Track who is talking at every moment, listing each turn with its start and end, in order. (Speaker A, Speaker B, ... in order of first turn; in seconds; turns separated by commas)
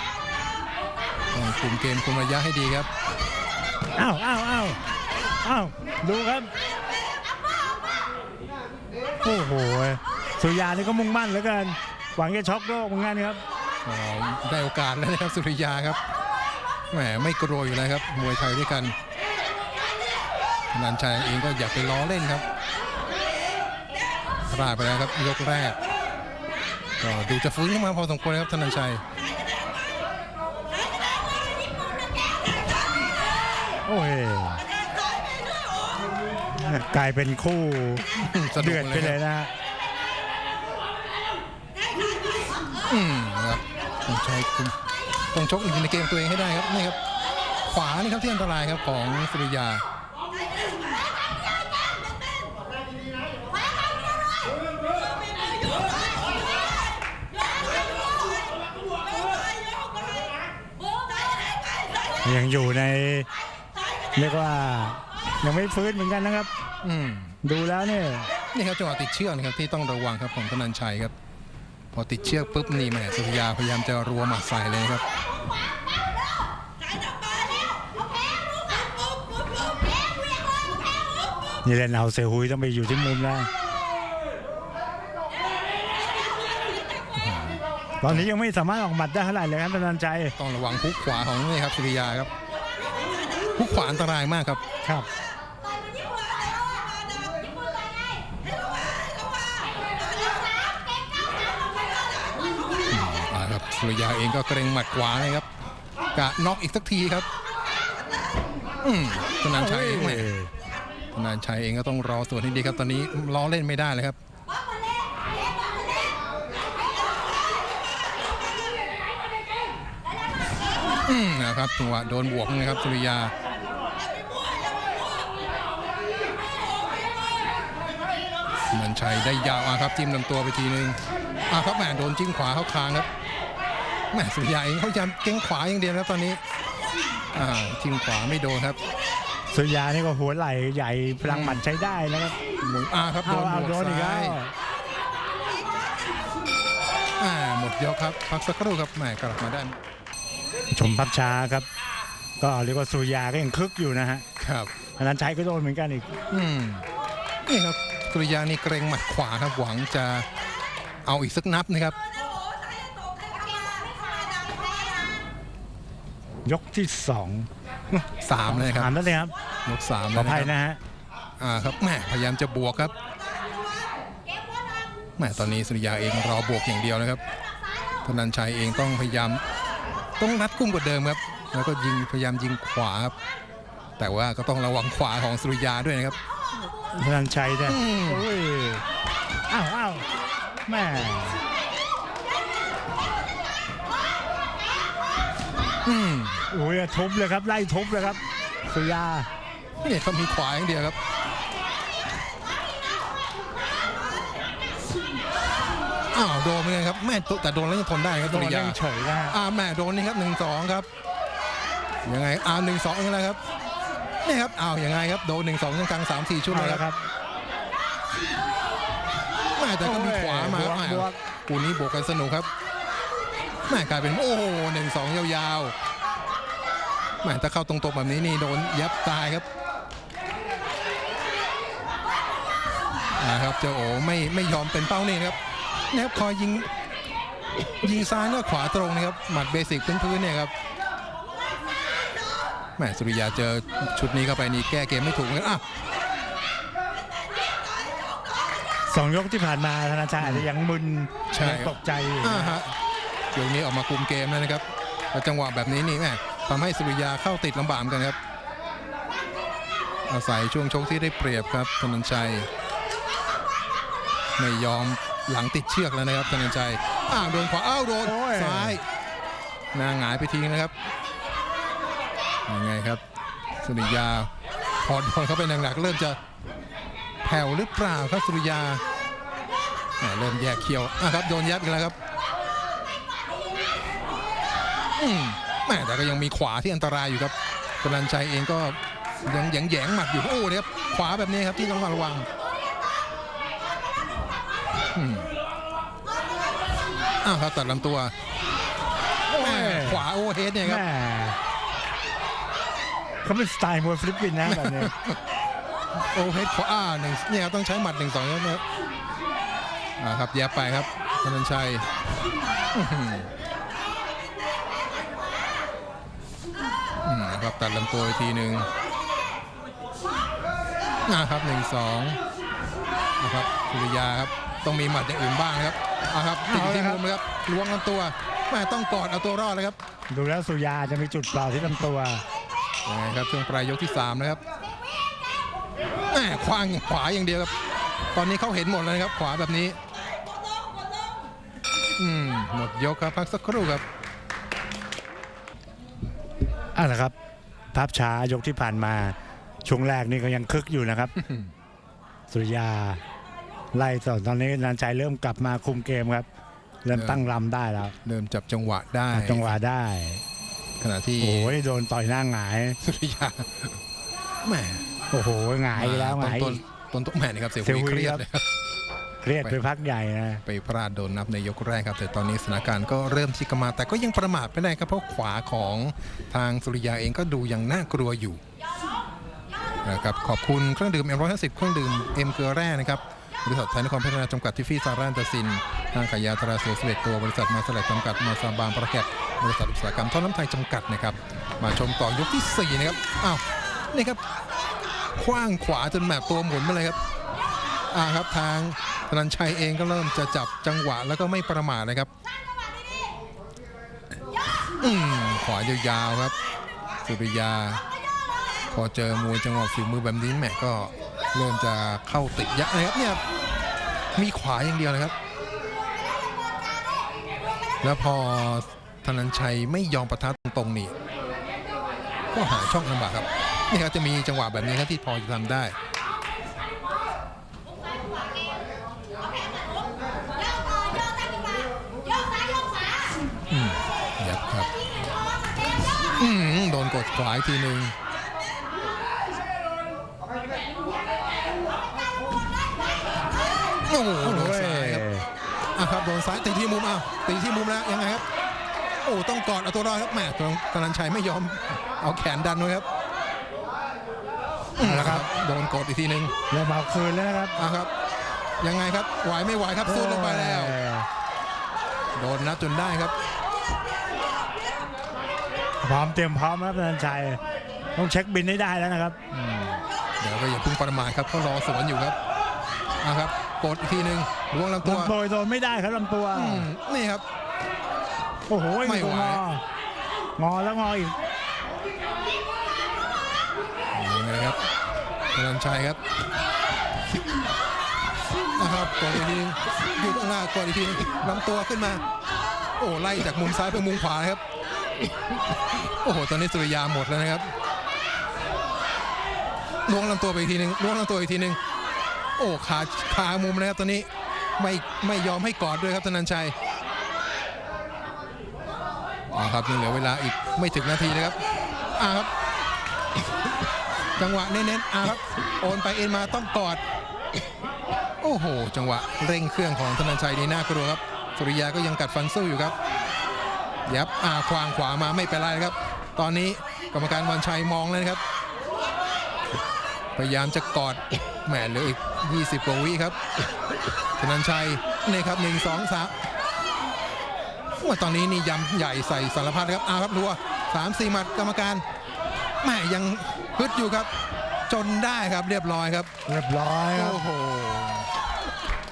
Speaker A: 1.3-2.9, Speaker B: 3.9-4.8, Speaker B: 5.4-6.5, Speaker B: 9.2-13.4, Speaker A: 13.8-16.0, Speaker A: 16.9-18.9, Speaker A: 20.7-22.4, Speaker A: 24.5-25.8, Speaker A: 27.0-29.0, Speaker B: 33.9-34.6, Speaker B: 36.6-39.5, Speaker A: 38.2-39.2, Speaker A: 42.9-44.8, Speaker A: 45.3-47.0, Speaker A: 47.7-49.8, Speaker B: 62.2-63.3, Speaker B: 64.2-66.5, Speaker A: 66.8-67.4, Speaker B: 67.4-68.3, Speaker A: 68.5-71.1, Speaker A: 71.9-75.0, Speaker B: 81.6-83.5, Speaker A: 87.2-88.3, Speaker B: 88.0-90.3, Speaker A: 90.4-92.3, Speaker A: 93.5-94.6, Speaker A: 102.9-105.5, Speaker A: 106.1-107.3, Speaker A: 108.8-110.3, Speaker B: 109.5-110.5, Speaker A: 111.1-114.2, Speaker A: 121.0-123.3, Speaker A: 128.7-131.0, Speaker A: 131.5-133.1, Speaker A: 134.1-136.4, Speaker A: 137.3-138.8, Speaker B: 139.5-142.3, Speaker A: 141.2-141.6, Speaker A: 142.6-144.4, Speaker B: 143.2-144.5, Speaker A: 147.2-149.8, Speaker B: 150.7-151.7, Speaker B: 152.4-154.2, Speaker A: 154.4-154.7, Speaker B: 154.9-156.1, Speaker A: 156.3-156.8, Speaker A: 157.4-160.3, Speaker A: 161.0-161.9, Speaker B: 166.4-169.3, Speaker A: 168.2-168.9, Speaker A: 169.7-170.5, Speaker B: 170.1-170.8, Speaker A: 171.4-172.9, Speaker A: 175.2-177.2, Speaker A: 178.0-179.4, Speaker A: 180.2-183.1, Speaker A: 184.0-186.2, Speaker B: 186.9-188.8, Speaker A: 187.7-188.3, Speaker B: 189.5-190.1, Speaker B: 190.7-191.4, Speaker A: 195.8-196.4, Speaker B: 196.5-199.3, Speaker A: 199.8-201.0, Speaker A: 206.1-210.9, Speaker B: 208.2-209.4, Speaker A: 212.0-213.4, Speaker A: 214.2-216.8, Speaker B: 216.5-217.0, Speaker A: 219.6-222.5, Speaker B: 219.8-221.2, Speaker A: 223.7-225.7, Speaker A: 227.2-229.4, Speaker A: 233.2-235.4, Speaker A: 235.9-236.7, Speaker A: 237.8-240.5, Speaker A: 242.8-245.6, Speaker B: 248.9-252.6, Speaker A: 250.2-250.5, Speaker A: 251.3-252.7, Speaker A: 253.3-258.2, Speaker A: 260.1-262.5, Speaker A: 264.4-268.8, Speaker B: 268.0-268.8, Speaker A: 269.7-270.7, Speaker A: 272.5-273.0, Speaker A: 273.6-274.3, Speaker A: 274.8-276.2, Speaker A: 277.2-278.8, Speaker A: 280.0-281.9, Speaker A: 285.0-292.3, Speaker A: 294.9-295.3, Speaker A: 297.2-298.1, Speaker B: 299.3-300.1, Speaker A: 299.3-300.8, Speaker B: 300.6-301.4, Speaker B: 303.2-304.9, Speaker A: 304.4-305.2, Speaker A: 306.0-308.6, Speaker A: 310.0-311.9, Speaker A: 312.7-313.3, Speaker A: 317.0-318.7, Speaker A: 321.1-322.2, Speaker A: 323.2-329.8, Speaker B: 326.5-327.0, Speaker B: 330.1-332.2, Speaker A: 332.9-334.4, Speaker A: 336.1-337.5, Speaker A: 338.1-339.8, Speaker A: 342.0-343.8, Speaker B: 346.7-347.1, Speaker B: 347.7-351.1, Speaker A: 351.2-351.5, Speaker B: 352.3-353.0, Speaker B: 353.7-356.3, Speaker B: 356.8-357.9, Speaker A: 356.9-357.2, Speaker A: 358.0-359.6, Speaker B: 359.1-360.2, Speaker A: 360.8-361.6, Speaker B: 361.2-362.8, Speaker A: 362.8-363.8, Speaker A: 364.4-364.8, Speaker B: 365.1-366.6, Speaker A: 365.7-368.4, Speaker B: 367.6-368.2, Speaker B: 369.2-370.4, Speaker A: 370.4-378.4, Speaker A: 379.8-394.2, Speaker A: 395.1-397.0, Speaker A: 397.9-402.1, Speaker A: 404.8-406.3, Speaker A: 407.0-407.8, Speaker A: 408.7-413.2, Speaker A: 414.1-415.1, Speaker A: 417.8-420.9, Speaker A: 422.3-425.7, Speaker A: 433.5-434.7, Speaker A: 436.2-437.9, Speaker A: 443.9-445.0, Speaker B: 444.2-445.3, Speaker A: 445.8-448.2, Speaker A: 449.0-452.9, Speaker A: 454.8-456.3, Speaker B: 454.8-455.3, Speaker B: 456.5-457.6, Speaker A: 457.6-457.9, Speaker A: 458.6-460.8, Speaker B: 459.8-461.1, Speaker A: 462.1-463.1, Speaker B: 465.8-467.4, Speaker B: 467.9-469.2, Speaker A: 469.3-472.2, Speaker A: 473.0-475.1, Speaker B: 474.8-476.7, Speaker A: 476.3-477.2, Speaker B: 478.5-479.6, Speaker A: 478.8-479.4, Speaker B: 480.4-481.2, Speaker A: 483.9-484.6, Speaker A: 485.3-486.0, Speaker A: 488.6-492.0, Speaker A: 492.8-494.4, Speaker A: 495.5-497.5, Speaker A: 499.9-501.6, Speaker A: 502.4-506.5, Speaker A: 509.3-511.4, Speaker A: 511.9-512.3, Speaker A: 514.2-516.8, Speaker A: 518.2-522.7, Speaker A: 523.9-528.2, Speaker A: 530.1-533.2, Speaker A: 534.2-536.2, Speaker A: 537.8-541.8, Speaker A: 542.6-544.1, Speaker A: 544.7-546.1, Speaker B: 546.3-547.2, Speaker A: 546.9-548.1